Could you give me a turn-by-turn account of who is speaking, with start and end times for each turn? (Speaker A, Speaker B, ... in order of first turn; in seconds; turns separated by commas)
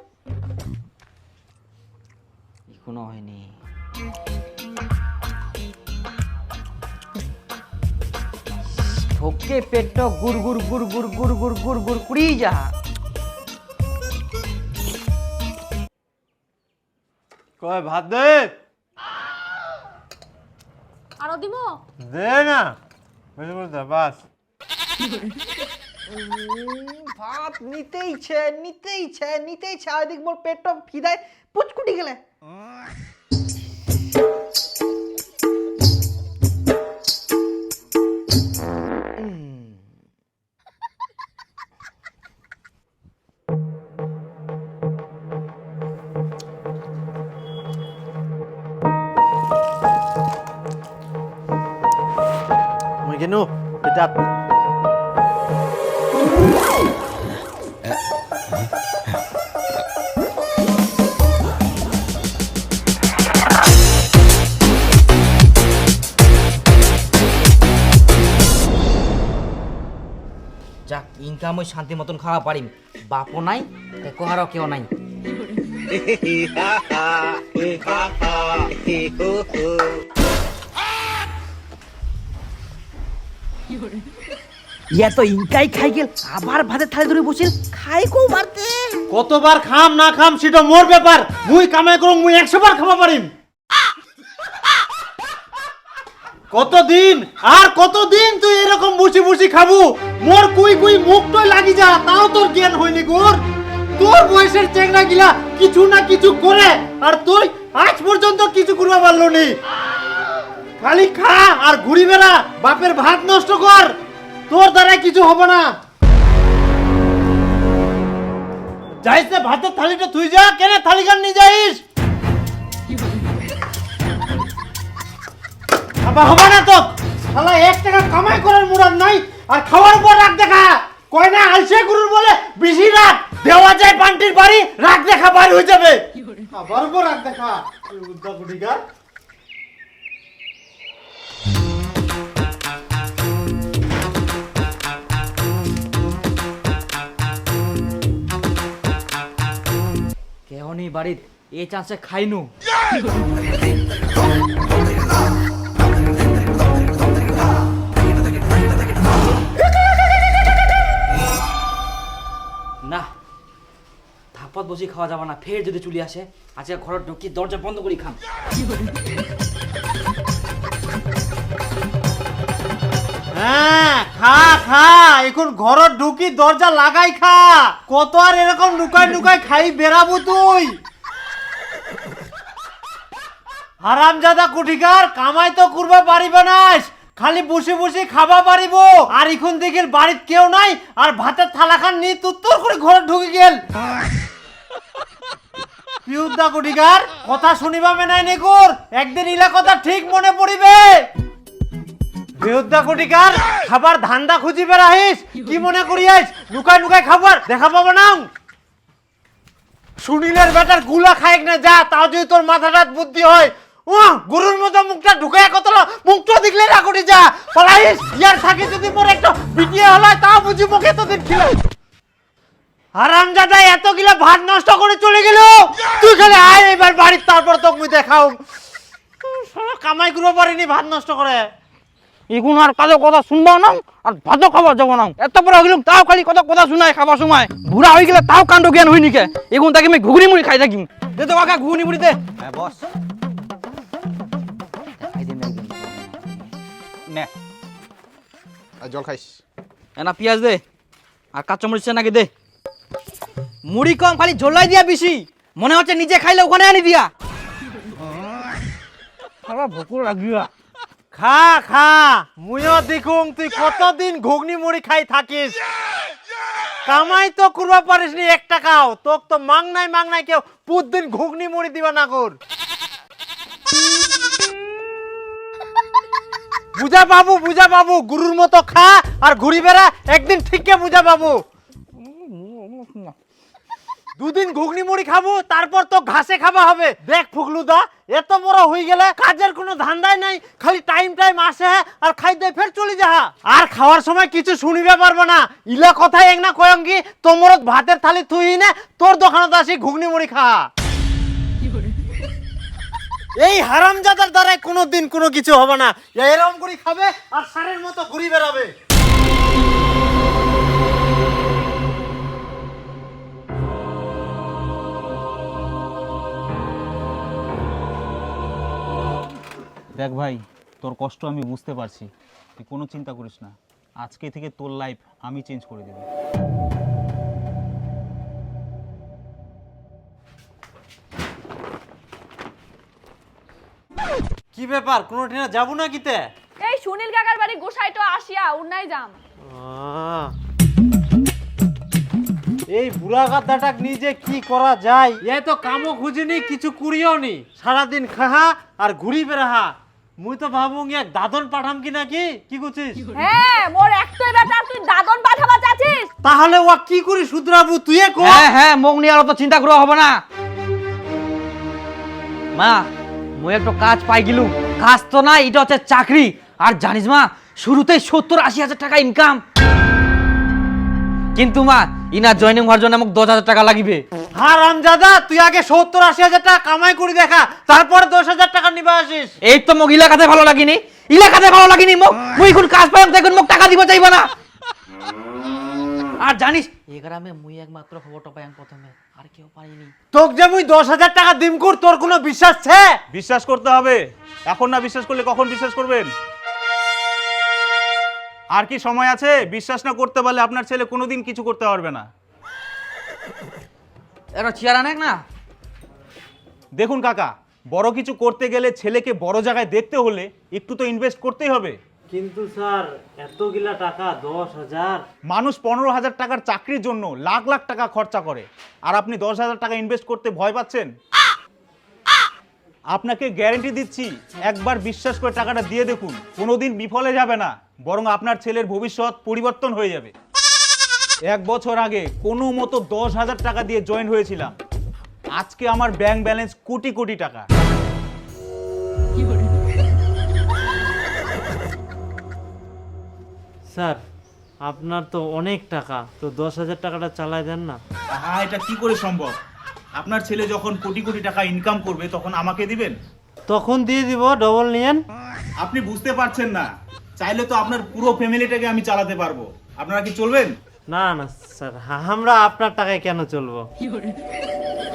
Speaker A: 2.7-3.5, Speaker A: 8.8-12.7, Speaker B: 17.6-18.5, Speaker C: 21.2-21.8, Speaker B: 22.0-22.8, Speaker B: 23.4-24.2, Speaker A: 26.1-32.2, Speaker A: 39.2-39.8, Speaker B: 53.0-54.3, Speaker A: 70.9-74.9, Speaker D: 76.1-79.7, Speaker A: 84.9-88.8, Speaker B: 89.1-93.3, Speaker B: 96.5-103.4, Speaker B: 104.0-109.5, Speaker B: 110.8-113.9, Speaker B: 114.5-115.7, Speaker B: 119.0-121.8, Speaker B: 126.0-138.8, Speaker A: 150.5-152.5, Speaker A: 162.8-163.1, Speaker A: 164.3-168.2, Speaker B: 173.3-180.8, Speaker B: 183.8-193.6, Speaker B: 196.1-201.1, Speaker B: 202.4-208.3, Speaker B: 210.0-221.6, Speaker B: 223.0-228.4, Speaker B: 229.2-231.5, Speaker A: 232.3-242.2, Speaker E: 242.4-242.8, Speaker A: 245.0-246.5, Speaker D: 248.8-249.4, Speaker A: 250.0-250.6, Speaker A: 251.3-252.3, Speaker A: 253.7-257.1, Speaker A: 259.5-260.5, Speaker B: 261.1-265.6, Speaker B: 266.9-272.4, Speaker B: 276.8-281.4, Speaker A: 282.0-283.1, Speaker B: 284.2-300.7, Speaker B: 303.4-308.7, Speaker E: 319.9-326.1, Speaker B: 334.5-336.2, Speaker C: 336.6-339.2, Speaker B: 339.4-340.3, Speaker B: 342.7-353.0, Speaker C: 353.1-356.1, Speaker B: 356.2-358.4, Speaker A: 358.2-360.2, Speaker A: 362.6-369.4, Speaker A: 371.4-374.0, Speaker B: 374.4-379.3, Speaker A: 379.5-384.3, Speaker A: 386.2-389.9, Speaker B: 390.1-392.9, Speaker E: 393.1-396.1, Speaker E: 398.6-402.1, Speaker A: 404.4-405.2, Speaker E: 406.8-411.8, Speaker B: 412.1-415.0, Speaker E: 415.3-420.9, Speaker E: 422.9-430.1, Speaker E: 431.3-434.6, Speaker E: 435.4-437.4, Speaker B: 443.7-444.0, Speaker B: 444.6-447.8, Speaker E: 448.1-449.4, Speaker E: 450.0-453.0, Speaker B: 453.5-455.0, Speaker E: 455.6-456.7, Speaker E: 457.2-460.5, Speaker B: 460.9-463.6